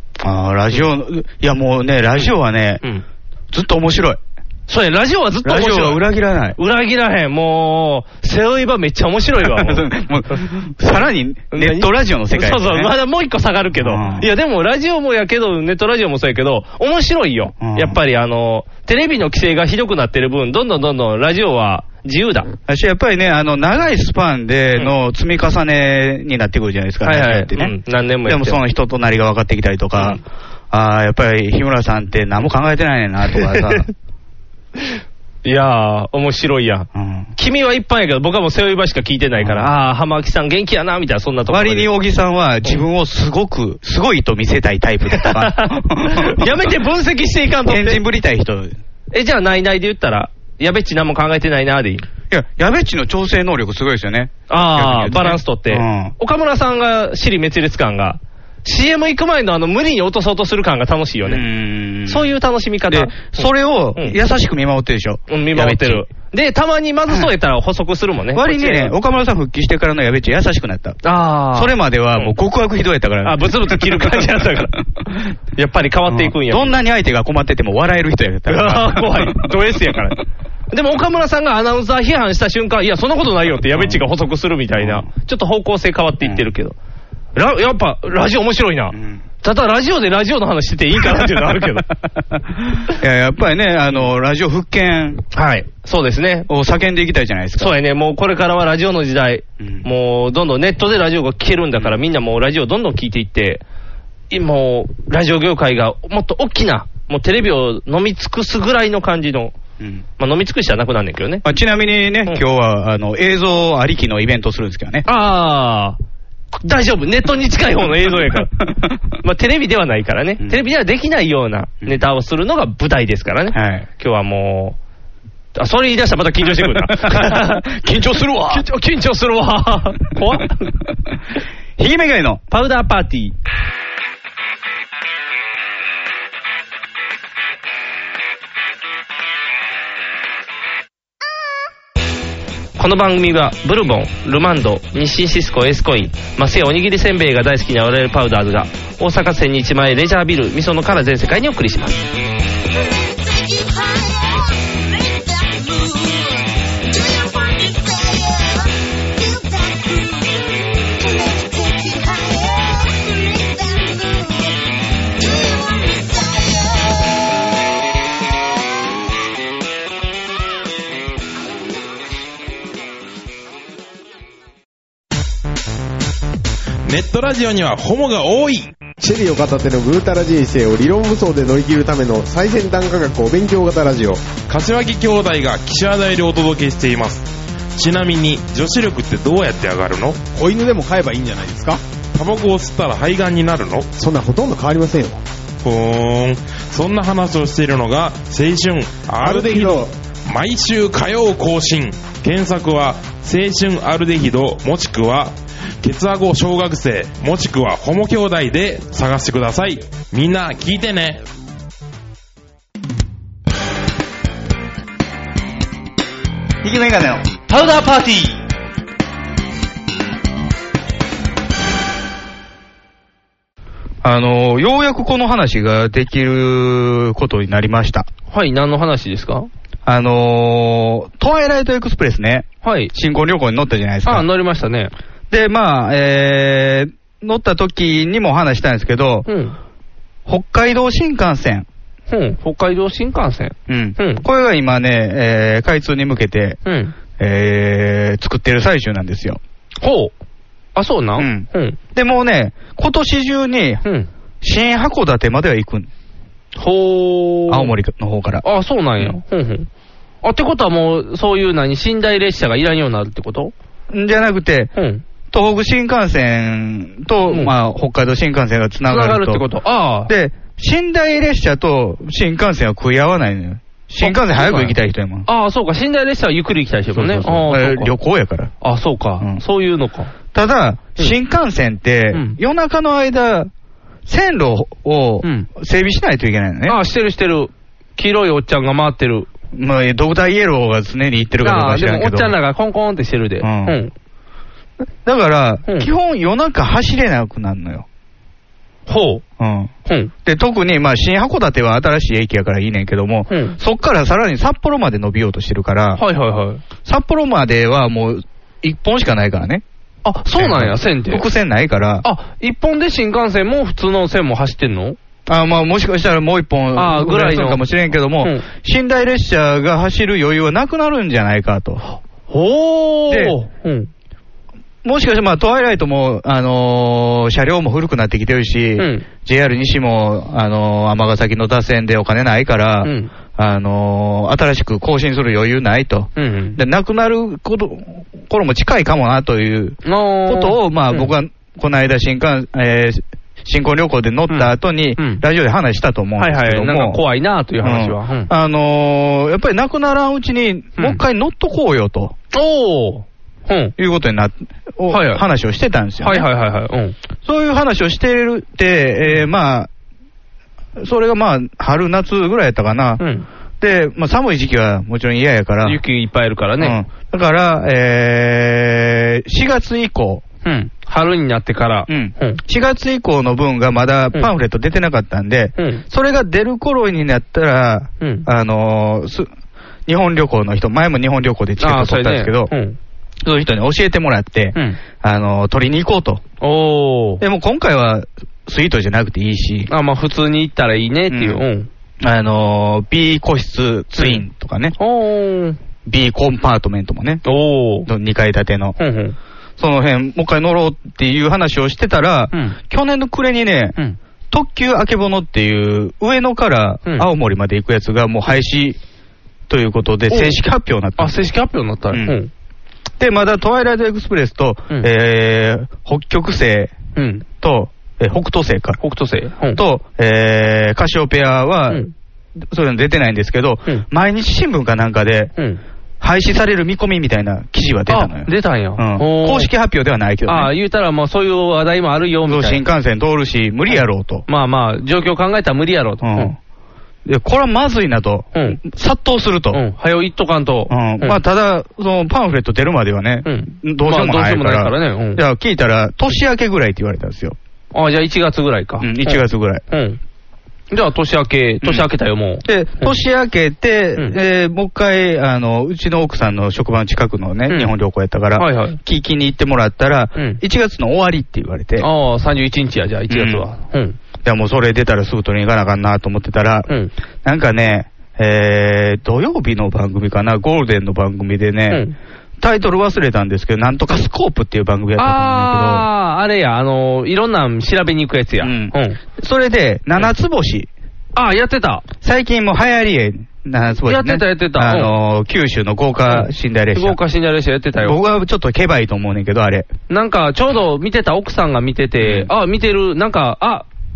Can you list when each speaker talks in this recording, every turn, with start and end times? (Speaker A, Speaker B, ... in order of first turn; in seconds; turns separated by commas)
Speaker A: 0.2-2.8, Speaker A: 3.5-4.2, Speaker B: 4.7-6.0, Speaker A: 5.4-6.6, Speaker B: 6.5-9.8, Speaker A: 9.4-12.9, Speaker B: 11.5-22.5, Speaker A: 13.8-14.3, Speaker A: 17.6-17.9, Speaker A: 22.7-33.9, Speaker B: 27.0-28.6, Speaker B: 33.4-33.7, Speaker B: 35.4-41.9, Speaker A: 36.9-37.3, Speaker A: 39.4-39.7, Speaker A: 41.5-46.7, Speaker B: 45.1-48.0, Speaker A: 47.6-48.8, Speaker B: 49.1-52.0, Speaker A: 52.3-56.1, Speaker B: 54.5-61.4, Speaker A: 61.2-62.3, Speaker B: 62.1-64.2, Speaker A: 62.9-66.0, Speaker B: 65.3-68.9, Speaker A: 68.3-71.0, Speaker B: 71.0-72.3, Speaker A: 71.5-74.6, Speaker B: 73.2-74.7, Speaker B: 75.5-76.8, Speaker A: 76.1-79.5, Speaker B: 78.5-86.8, Speaker A: 84.8-85.0, Speaker B: 87.3-91.9, Speaker A: 88.9-89.2, Speaker A: 92.8-95.2, Speaker B: 95.3-96.5, Speaker A: 96.5-97.7, Speaker B: 97.6-103.6, Speaker A: 99.6-99.8, Speaker B: 104.3-109.5, Speaker B: 110.2-111.4, Speaker A: 111.4-115.0, Speaker B: 115.0-116.0, Speaker B: 116.6-118.5, Speaker B: 119.2-124.8, Speaker A: 123.5-123.8, Speaker B: 125.5-127.7, Speaker A: 126.6-128.7, Speaker B: 128.5-130.7, Speaker A: 131.8-132.4, Speaker B: 132.5-133.3, Speaker B: 142.8-152.0, Speaker C: 152.7-167.1, Speaker D: 176.8-178.8, Speaker E: 178.9-184.3, Speaker D: 184.5-190.2, Speaker E: 190.3-191.8, Speaker D: 192.1-193.9, Speaker E: 193.9-195.2, Speaker D: 195.6-211.2, Speaker E: 199.2-199.9, Speaker A: 216.6-217.2, Speaker B: 217.5-218.3, Speaker A: 224.0-228.1, Speaker B: 228.3-229.5, Speaker A: 229.8-234.2, Speaker B: 232.6-232.9, Speaker B: 234.0-234.9, Speaker A: 235.3-239.2, Speaker B: 239.2-239.6, Speaker A: 240.3-241.7, Speaker B: 242.1-244.2, Speaker A: 243.7-246.6, Speaker B: 246.6-246.9, Speaker A: 247.2-249.4, Speaker B: 249.8-250.1, Speaker B: 250.7-251.8, Speaker A: 251.2-253.8, Speaker B: 253.8-254.1, Speaker A: 254.4-255.9, Speaker B: 256.6-257.7, Speaker A: 257.5-258.4, Speaker B: 258.4-259.7, Speaker B: 260.2-263.5, Speaker A: 263.9-264.7, Speaker B: 264.7-265.0, Speaker A: 265.3-269.4, Speaker B: 268.9-270.1, Speaker A: 270.1-275.2, Speaker B: 274.0-277.9, Speaker A: 276.9-278.5, Speaker B: 278.6-280.1, Speaker A: 280.3-283.5, Speaker B: 282.1-282.4, Speaker A: 284.1-286.8, Speaker B: 285.2-285.5, Speaker B: 286.6-289.3, Speaker A: 289.5-292.4, Speaker B: 291.4-293.9, Speaker A: 293.4-293.8, Speaker A: 295.0-297.8, Speaker B: 298.9-299.2, Speaker A: 299.4-299.7, Speaker B: 299.9-300.1, Speaker A: 300.2-306.0, Speaker B: 303.3-303.6, Speaker B: 305.9-306.6, Speaker A: 306.8-309.6, Speaker B: 310.0-311.2, Speaker A: 310.3-312.0, Speaker B: 312.0-315.0, Speaker A: 315.3-321.8, Speaker B: 316.7-318.4, Speaker B: 322.3-323.9, Speaker A: 323.1-323.4, Speaker A: 324.8-347.0, Speaker B: 328.8-329.1, Speaker B: 332.8-333.1, Speaker B: 336.1-336.6, Speaker B: 339.8-341.1, Speaker B: 344.3-345.2, Speaker B: 346.2-348.3, Speaker A: 347.6-352.1, Speaker B: 350.8-351.0, Speaker B: 352.3-353.7, Speaker A: 353.8-356.3, Speaker B: 354.9-355.2, Speaker B: 356.0-356.9, Speaker A: 357.2-359.7, Speaker A: 360.8-363.0, Speaker B: 363.0-363.2, Speaker A: 363.6-365.8, Speaker B: 365.6-366.8, Speaker A: 366.6-370.2, Speaker B: 370.4-372.4, Speaker A: 371.9-379.3, Speaker B: 375.6-375.8, Speaker B: 378.0-378.3, Speaker A: 379.9-382.5, Speaker B: 381.6-382.8, Speaker A: 383.2-386.2, Speaker B: 386.4-387.2, Speaker A: 387.2-389.7, Speaker B: 389.7-391.7, Speaker A: 391.1-391.4, Speaker A: 392.0-394.8, Speaker B: 393.9-394.2, Speaker B: 394.8-395.6, Speaker A: 395.9-397.2, Speaker B: 397.2-397.9, Speaker A: 397.9-398.8, Speaker B: 398.8-399.1, Speaker A: 399.6-403.8, Speaker B: 402.3-402.6, Speaker A: 404.3-408.8, Speaker A: 409.5-411.1, Speaker B: 410.1-410.4, Speaker B: 411.0-412.3, Speaker A: 411.9-412.2, Speaker A: 413.0-416.7, Speaker B: 416.9-417.2, Speaker A: 417.4-418.8, Speaker B: 418.8-419.6, Speaker A: 419.5-421.9, Speaker A: 422.5-425.3, Speaker A: 426.0-430.5, Speaker B: 427.9-429.5, Speaker B: 430.2-432.6, Speaker A: 432.2-434.2, Speaker B: 433.7-436.3, Speaker A: 436.0-436.4, Speaker A: 437.1-439.6, Speaker B: 438.3-438.6, Speaker B: 439.5-441.2, Speaker A: 440.7-447.4, Speaker B: 443.2-445.2, Speaker B: 447.7-450.0, Speaker A: 448.8-449.6, Speaker B: 450.7-452.9, Speaker A: 451.6-451.9, Speaker A: 452.4-461.9, Speaker B: 458.4-458.8, Speaker B: 460.1-460.4, Speaker B: 461.8-464.0, Speaker A: 463.1-463.4, Speaker A: 464.2-466.7, Speaker A: 467.2-471.9, Speaker B: 471.7-471.9, Speaker A: 472.4-475.9, Speaker B: 475.0-479.0, Speaker A: 478.4-480.7, Speaker B: 481.1-481.8, Speaker A: 482.0-487.0, Speaker B: 483.9-484.9, Speaker B: 486.1-488.0, Speaker A: 487.8-489.7, Speaker B: 489.9-493.6, Speaker A: 492.0-492.3